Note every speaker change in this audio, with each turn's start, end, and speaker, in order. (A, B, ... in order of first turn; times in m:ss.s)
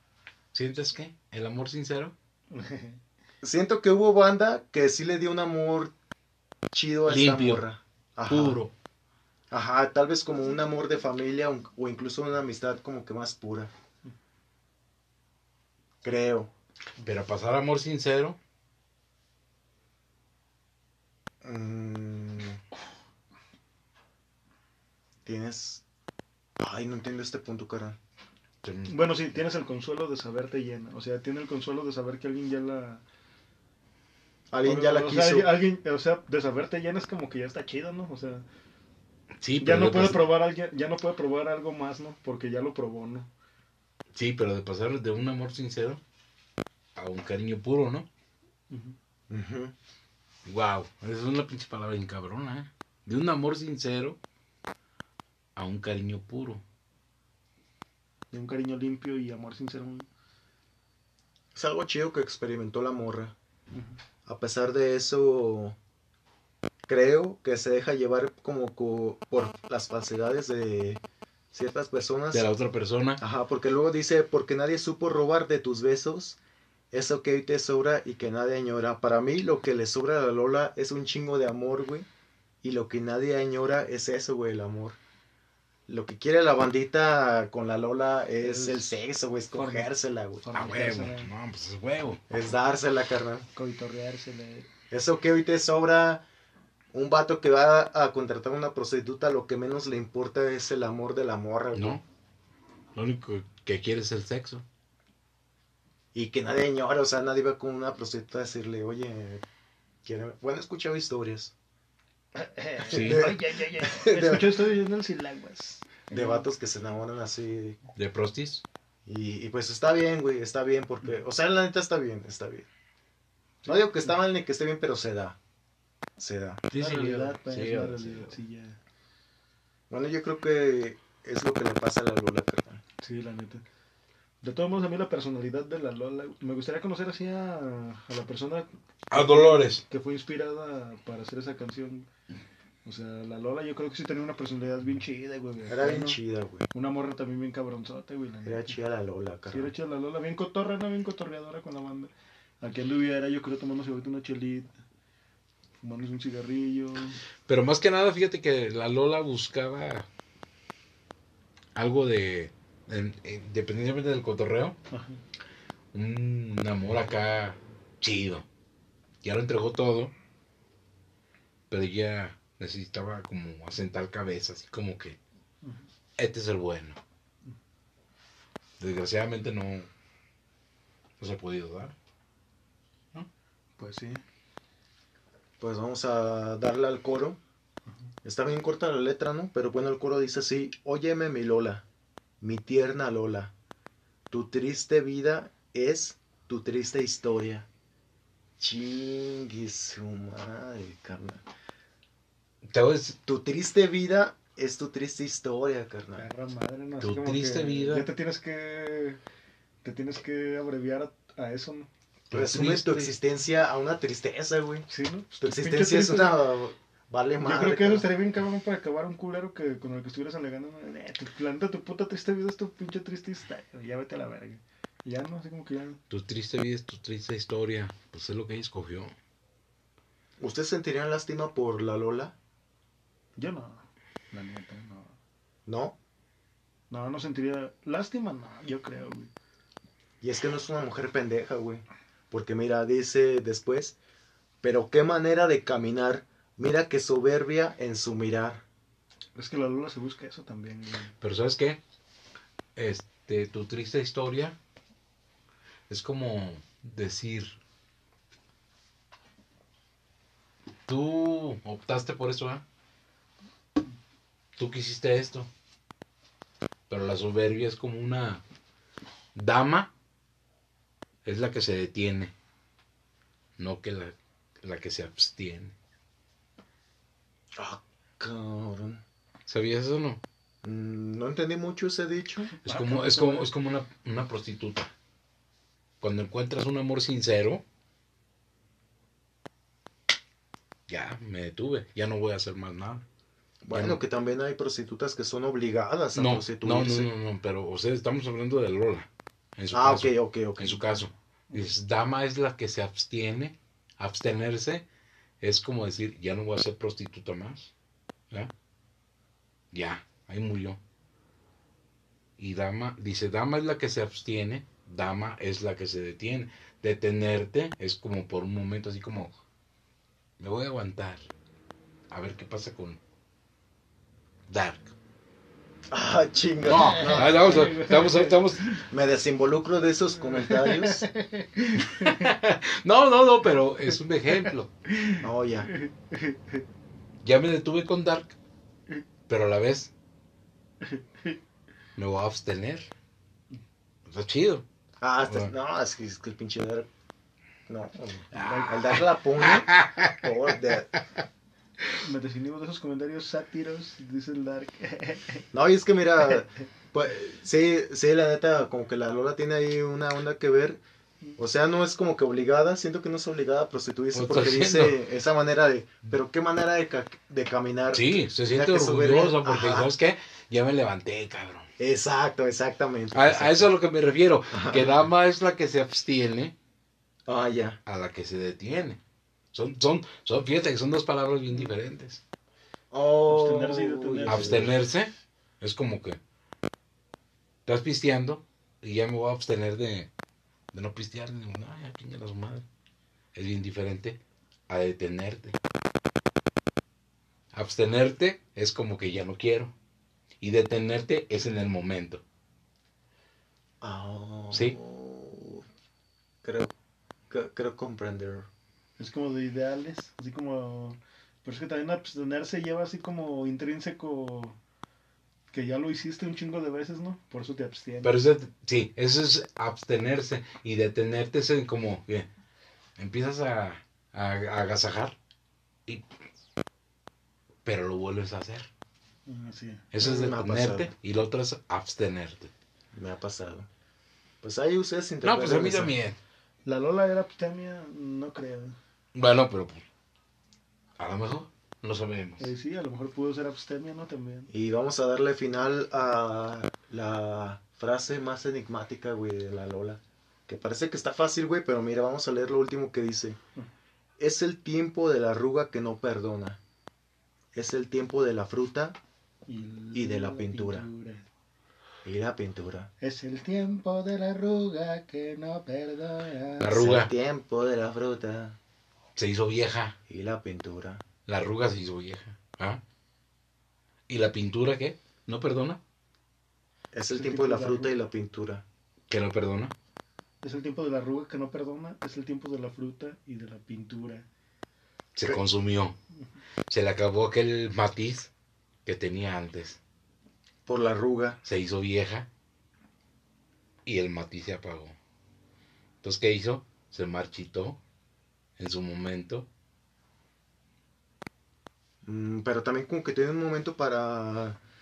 0:00.5-0:02.1 A
0:02.5-0:03.0 B
0:03.4-0:05.9 C
0:06.7-0:08.6 C
0:07.1-0:07.6 A
0:08.2-0:08.7 A
0:09.5-0:13.7 C
0:16.0-0:16.5 C
0:17.0-0:18.4 A
0:21.4-0:22.6 C
0:25.2-0:25.8 C
0:26.6-0:28.0 C
0:28.6-0:28.9 A
0:28.9-0:33.0 B
0:34.5-0:35.5 C
0:34.6-0:38.4 B
0:39.4-0:40.3 A
0:39.6-0:43.3 B
0:44.1-0:46.0 A
0:47.0-0:48.1 A
0:48.7-0:49.0 B
0:49.3-0:49.7 C
0:50.4-0:54.2 A
0:55.6-0:56.6 A
0:58.3-1:00.1 B
1:01.5-1:03.3 C
1:04.2-1:05.8 C
1:06.9-1:11.0 C
1:11.5-1:12.5 C
1:12.3-1:13.2 A
1:13.2-1:16.4 C
1:16.9-1:22.1 C
1:22.6-1:25.0 C
1:25.9-1:30.4 C
1:28.4-1:28.9 B
1:29.5-1:31.3 B
1:30.5-1:32.2 A
1:32.3-1:33.5 C
1:33.5-1:34.7 B
1:34.9-1:36.2 C
1:36.9-1:42.0 C
1:41.7-1:42.0 A
1:42.9-1:44.6 A
1:46.1-1:49.4 C
1:50.0-1:51.5 C
1:52.4-1:56.5 B
1:52.9-1:53.3 A
1:52.9-1:54.6 C
1:56.1-1:57.8 C
1:57.9-1:58.6 A
1:59.0-2:02.7 C
2:03.6-2:04.1 B
2:03.6-2:05.4 C
2:06.2-2:06.6 C
2:06.7-2:08.4 A
2:06.7-2:08.8 B
2:09.9-2:12.8 C
2:13.0-2:13.6 B
2:14.4-2:22.1 B
2:19.1-2:19.8 A
2:22.8-2:26.2 B
2:25.7-2:26.6 C
2:26.7-2:28.8 B
2:28.4-2:29.7 C
2:29.5-2:34.7 B
2:35.8-2:37.2 B
2:37.5-2:40.1 A
2:41.7-2:44.8 A
2:44.9-2:45.2 B
2:45.9-2:48.4 A
2:49.2-2:50.1 A
2:51.7-2:55.2 A
2:56.2-2:57.0 A
2:58.8-2:59.9 A
3:01.2-3:01.9 A
3:03.8-3:04.2 B
3:05.6-3:07.4 C
3:08.2-3:11.8 C
3:12.4-3:13.5 C
3:14.3-3:17.7 C
3:18.6-3:21.4 C
3:22.6-3:23.2 A
3:23.2-3:26.3 C
3:26.2-3:29.2 B
3:27.0-3:28.1 A
3:29.8-3:31.9 B
3:32.3-3:33.1 A
3:32.3-3:34.8 C
3:34.9-3:36.4 B
3:35.4-3:38.1 C
3:37.4-3:46.0 B
3:46.1-3:49.1 A
3:50.4-3:52.3 C
3:53.4-3:55.2 B
3:55.6-3:56.0 C
3:56.9-3:59.3 B
4:00.2-4:04.0 C
4:04.6-4:08.6 C
4:09.4-4:11.1 B
4:11.2-4:11.8 A
4:12.8-4:14.6 A
4:15.9-4:17.6 A
4:20.9-4:22.6 A
4:24.6-4:25.5 A
4:26.9-4:28.4 A
4:29.3-4:29.9 A
4:31.2-4:32.3 A
4:33.6-4:35.7 A
4:37.5-4:39.0 C
4:39.5-4:40.2 A
4:40.6-4:42.5 C
4:42.5-4:43.5 B
4:42.6-4:44.9 A
4:46.0-4:47.6 A
4:50.9-4:53.0 A
4:53.6-4:57.1 C
4:53.7-4:54.0 A
4:56.1-5:04.8 A
4:59.7-5:00.9 C
5:05.4-5:07.7 A
5:09.7-5:10.8 A
5:12.4-5:19.3 A
5:20.4-5:21.3 A
5:22.1-5:23.0 A
5:24.5-5:24.9 A
5:25.9-5:27.6 C
5:26.6-5:28.7 A
5:26.7-5:28.8 B
5:28.9-5:31.1 C
5:30.3-5:32.3 B
5:31.9-5:34.7 A
5:34.4-5:36.6 B
5:35.2-5:35.7 C
5:37.2-5:38.4 A
5:39.3-5:39.9 A
5:40.8-5:41.4 B
5:42.0-5:42.9 A
5:44.1-5:44.6 A
5:45.0-5:46.9 C
5:47.7-5:50.9 C
5:48.3-5:49.0 B
5:48.3-5:50.3 A
5:52.0-5:55.4 B
5:55.5-6:00.8 C
6:01.4-6:09.9 C
6:04.1-6:05.0 A
6:07.9-6:11.7 A
6:11.8-6:13.7 C
6:13.1-6:16.5 A
6:14.5-6:15.1 C
6:17.2-6:17.8 C
6:17.8-6:19.0 A
6:19.5-6:22.2 A
6:22.9-6:24.8 C
6:23.3-6:24.7 B
6:24.3-6:26.2 A
6:27.6-6:30.1 A
6:30.7-6:32.6 A
6:33.3-6:35.6 A
6:37.5-6:39.7 A
6:40.4-6:42.2 A
6:43.8-6:45.6 C
6:46.4-6:46.7 C
6:47.3-6:48.5 C
6:49.0-6:54.6 B
6:55.5-6:58.1 B
6:58.0-7:02.3 A
7:03.0-7:05.2 A
7:07.6-7:08.7 A
7:09.2-7:09.9 B
7:09.9-7:12.5 A
7:10.0-7:10.9 C
7:12.9-7:13.7 C
7:14.4-7:15.9 C
7:15.2-7:16.2 A
7:16.6-7:18.8 B
7:19.1-7:19.8 A
7:21.0-7:22.5 A
7:22.4-7:24.5 B
7:24.5-7:33.4 C
7:34.2-7:36.6 C
7:37.5-7:39.0 C
7:39.5-7:41.2 B
7:39.9-7:40.9 C
7:42.0-7:42.9 C
7:43.0-7:46.8 B
7:46.6-7:47.1 A
7:46.7-7:48.6 C
7:49.2-7:50.0 A
7:50.1-7:51.0 C
7:51.2-7:52.8 A
7:54.1-7:55.8 A
7:56.9-7:58.6 C
7:57.1-7:57.9 B
7:59.1-7:59.7 A
8:00.4-8:04.2 B
8:05.2-8:06.0 A
8:06.7-8:08.3 A
8:08.8-8:09.8 A
8:10.6-8:11.4 C
8:11.4-8:12.3 A
8:13.8-8:15.0 A
8:16.0-8:17.8 A
8:18.6-8:19.5 A
8:22.0-8:24.6 C